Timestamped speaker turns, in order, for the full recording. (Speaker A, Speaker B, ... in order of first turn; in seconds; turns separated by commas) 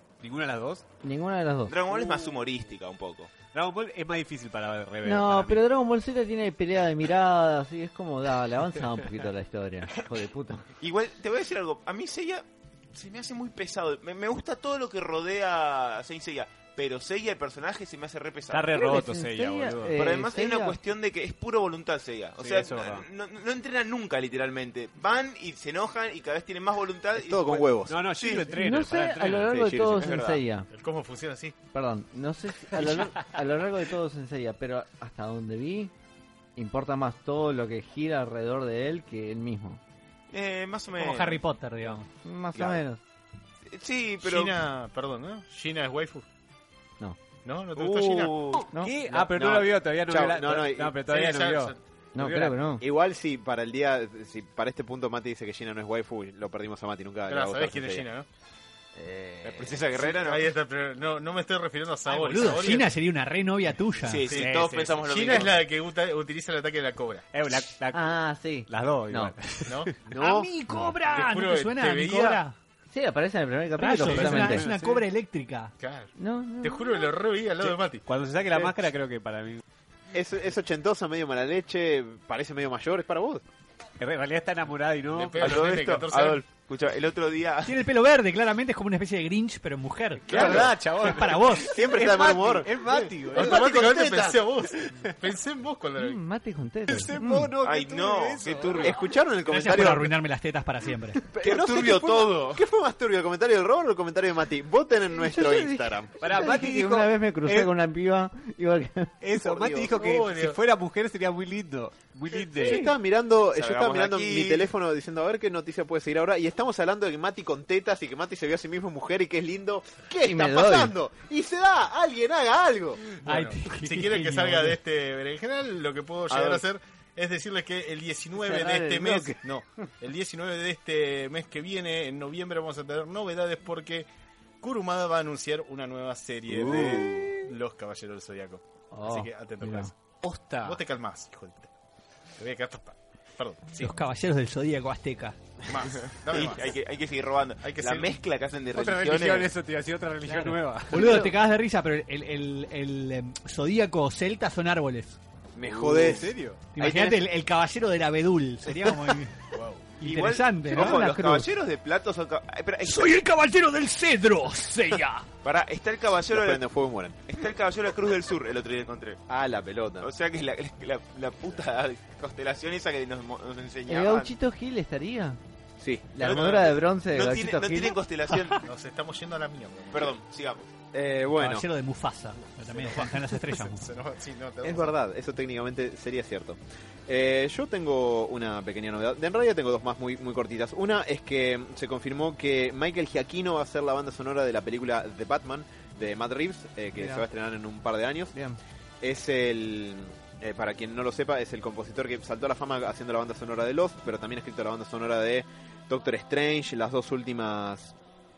Speaker A: 0.2-0.9, Speaker B: 1.0-1.8, Speaker C: 1.7-3.3, Speaker A: 3.5-5.6, Speaker B: 5.0-10.7, Speaker C: 10.8-18.8, Speaker A: 18.5-20.1, Speaker B: 18.7-20.8, Speaker C: 19.9-28.6, Speaker A: 22.4-23.1, Speaker D: 27.1-28.0, Speaker A: 27.9-29.5, Speaker B: 28.5-30.7, Speaker D: 29.4-30.1, Speaker C: 30.0-30.4, Speaker E: 30.7-31.6, Speaker B: 31.7-35.9, Speaker B: 36.6-39.8, Speaker C: 40.3-41.4, Speaker F: 41.0-42.1, Speaker B: 42.2-43.0, Speaker C: 43.7-44.5, Speaker E: 44.2-46.2, Speaker E: 47.5-48.6, Speaker C: 47.8-48.6, Speaker A: 48.5-52.6, Speaker B: 48.7-49.2, Speaker D: 49.1-51.0, Speaker E: 51.1-51.8, Speaker B: 52.1-52.8, Speaker D: 52.8-58.1, Speaker E: 57.3-58.3, Speaker B: 59.0-60.0, Speaker C: 59.4-60.5, Speaker E: 60.0-63.0, Speaker F: 62.1-64.3, Speaker C: 64.0-65.6, Speaker E: 64.1-67.3, Speaker A: 64.3-65.0, Speaker A: 67.3-68.1, Speaker B: 67.9-69.3, Speaker A: 68.7-70.1, Speaker E: 69.7-70.0, Speaker F: 70.1-72.6, Speaker D: 70.1-70.5, Speaker E: 71.1-72.4, Speaker B: 72.9-74.7, Speaker F: 73.8-75.7, Speaker A: 74.0-74.9, Speaker E: 74.2-75.0, Speaker E: 75.8-78.7, Speaker B: 76.2-77.1, Speaker A: 77.7-79.6, Speaker D: 80.1-83.4, Speaker A: 84.0-85.7, Speaker E: 85.1-86.4, Speaker C: 85.4-87.8, Speaker F: 87.7-91.9, Speaker D: 90.3-90.8, Speaker A: 90.3-93.8, Speaker D: 91.5-94.4, Speaker E: 93.3-96.2, Speaker B: 96.0-97.5, Speaker A: 96.9-99.0, Speaker C: 97.6-99.0, Speaker D: 98.8-100.2, Speaker F: 99.5-101.3, Speaker D: 101.3-106.2, Speaker C: 101.4-102.6, Speaker B: 105.2-109.1, Speaker A: 106.2-107.7, Speaker A: 109.2-112.8, Speaker D: 109.4-109.9, Speaker E: 109.8-110.6, Speaker D: 112.5-123.0, Speaker B: 112.6-112.9, Speaker C: 113.5-114.7, Speaker B: 120.2-121.0, Speaker E: 123.2-134.1, Speaker F: 123.2-124.8, Speaker D: 126.3-126.6, Speaker B: 128.4-129.4, Speaker E: 134.6-140.0, Speaker D: 136.6-137.0, Speaker C: 136.6-137.3, Speaker B: 138.9-139.9, Speaker A: 140.2-140.8, Speaker E: 140.6-141.7, Speaker E: 142.4-144.0, Speaker F: 143.8-145.4, Speaker E: 145.7-146.8, Speaker C: 145.8-149.5, Speaker E: 147.6-148.2, Speaker A: 148.7-151.3, Speaker F: 150.3-155.2, Speaker D: 155.6-157.2, Speaker A: 155.6-156.7, Speaker F: 156.7-161.5, Speaker E: 159.5-159.9, Speaker C: 160.0-163.1, Speaker F: 162.8-165.3, Speaker C: 165.4-166.6, Speaker D: 166.3-167.2, Speaker C: 167.3-169.2, Speaker D: 169.3-170.1, Speaker C: 170.0-174.3, Speaker B: 173.9-175.4, Speaker D: 175.8-176.2, Speaker B: 176.1-178.0, Speaker C: 176.2-178.6, Speaker E: 178.6-180.2, Speaker C: 179.9-180.7, Speaker D: 180.9-181.7, Speaker F: 181.4-183.9, Speaker E: 182.6-184.9, Speaker D: 184.6-198.3, Speaker B: 197.0-197.3, Speaker B: 198.3-198.6, Speaker D: 199.0-207.9